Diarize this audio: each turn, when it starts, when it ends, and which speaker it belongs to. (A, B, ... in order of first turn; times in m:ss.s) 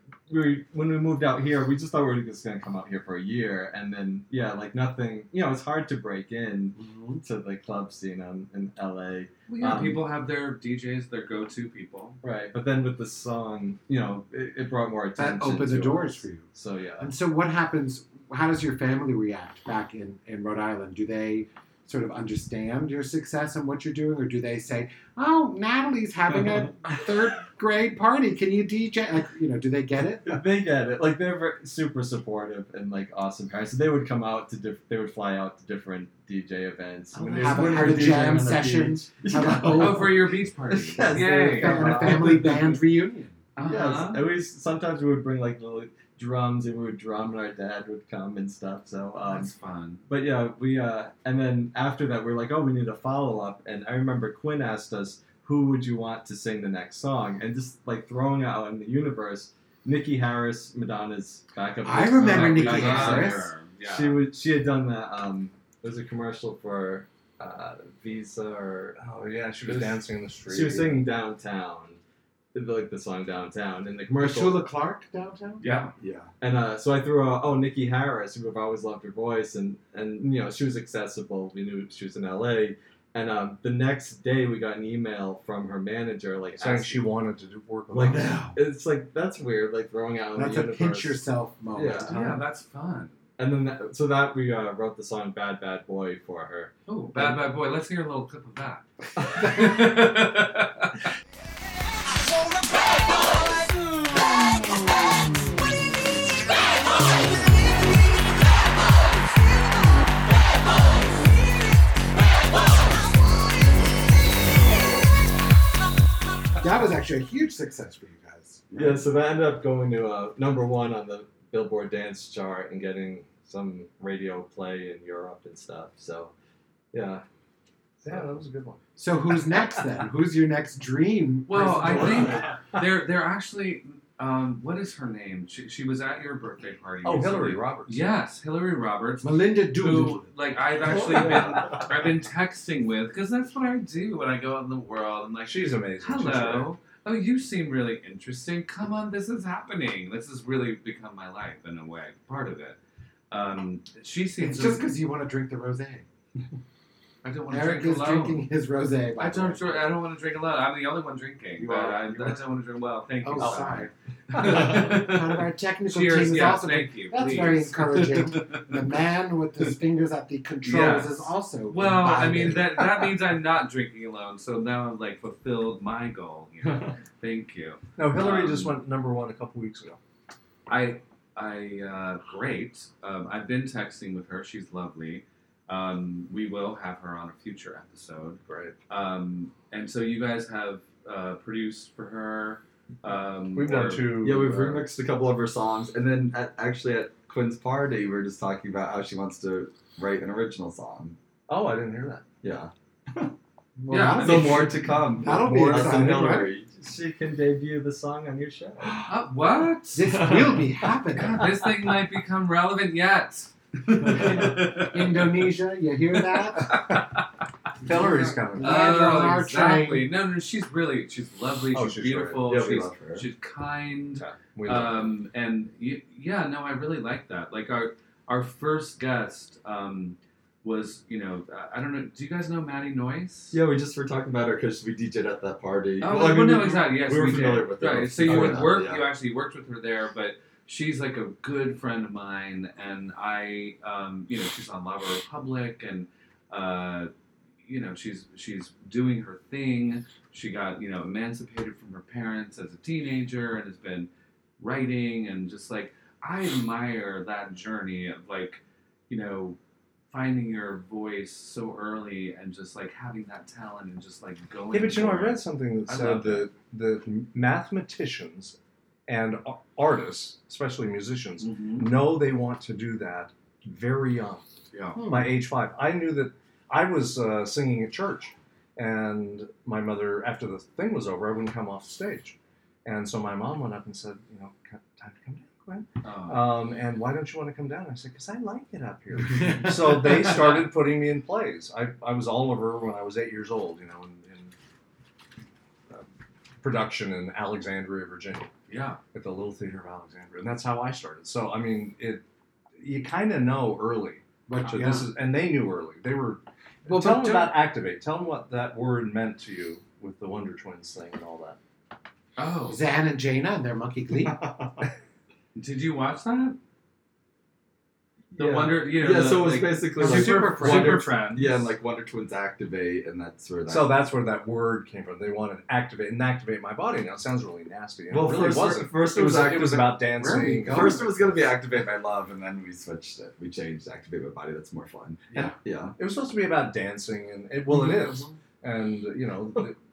0:00.3-0:10.0 A
0:06.8-0:07.2 B
0:09.5-0:12.2 C
0:12.2-0:17.1 A
0:15.2-0:16.5 B
0:17.0-0:30.4 B
0:30.3-0:42.7 A
0:37.1-0:40.3 B
0:37.4-0:38.3 D
0:39.7-0:42.5 C
0:41.1-0:43.4 B
0:43.6-0:44.3 C
0:43.6-0:49.5 A
0:49.2-0:50.0 C
0:50.1-1:09.0 A
1:01.8-1:03.5 B
1:02.2-1:04.2 C
1:09.0-1:11.1 D
1:09.6-1:12.0 A
1:12.5-1:14.7 A
1:14.2-1:15.7 B
1:15.6-1:15.9 C
1:16.0-1:16.3 E
1:16.4-1:27.1 A
1:26.6-1:28.4 D
1:27.9-1:31.2 A
1:28.1-1:28.6 B
1:30.4-1:32.4 B
1:31.7-1:32.2 A
1:32.1-1:33.2 C
1:33.4-1:37.4 A
1:36.9-1:41.0 C
1:56.6-1:58.9 B
1:58.7-2:06.3 A
2:06.9-2:07.2 A
2:08.0-2:08.8 D
2:09.0-2:12.5 B
2:11.5-2:32.8 C
2:17.0-2:18.1 D
2:19.2-2:20.3 B
2:20.9-2:21.8 A
2:25.4-2:26.7 D
2:33.3-2:34.9 C
2:34.4-2:36.1 B
2:37.2-2:38.4 C
2:37.5-2:39.9 B
2:39.2-2:48.8 C
2:43.2-2:52.9 B
2:50.6-2:58.8 C
2:58.0-3:00.0 D
3:00.7-3:14.0 C
3:08.5-3:08.8 D
3:13.6-3:14.9 D
3:14.2-3:21.2 E
3:21.5-3:22.3 D
3:22.4-3:23.3 E
3:23.8-3:26.5 B
3:23.9-3:24.7 C
3:24.2-3:25.4 E
3:25.3-3:29.0 A
3:25.4-3:26.1 D
3:28.8-3:29.1 B
3:29.1-3:30.2 C
3:29.9-3:31.7 B
3:31.1-3:35.4 C
3:34.0-3:36.8 B
3:36.6-3:37.0 C
3:37.8-3:40.1 B
3:37.8-3:39.1 D
3:38.6-3:53.6 C
3:41.7-3:42.4 D
3:42.5-3:43.2 A
3:42.8-3:43.2 E
3:44.2-3:45.1 D
3:53.5-3:59.0 E
3:56.0-4:07.1 C
3:56.6-3:58.8 A
4:07.6-4:19.6 C
4:20.1-4:26.5 C
4:24.7-4:34.4 D
4:31.4-4:31.9 C
4:34.7-4:35.0 C
4:35.0-4:35.3 B
4:35.0-4:54.5 D
4:46.0-4:46.6 C
4:50.3-4:50.6 C
4:56.6-4:58.5 D
4:58.7-4:59.0 C
4:59.1-5:02.2 D
5:02.8-5:11.6 D
5:04.5-5:05.1 B
5:06.9-5:07.6 B
5:12.4-5:12.8 C
5:12.7-5:14.5 B
5:15.6-5:16.6 C
5:18.4-5:21.7 C
5:18.4-5:21.2 A
5:18.4-5:23.9 E
5:20.0-5:21.1 B
5:23.7-5:31.1 D
5:28.1-5:29.8 E
5:28.2-5:30.0 A
5:30.1-5:31.2 B
5:30.7-5:36.0 E
5:35.3-5:35.6 B
5:36.0-5:39.8 D
5:37.7-5:38.3 B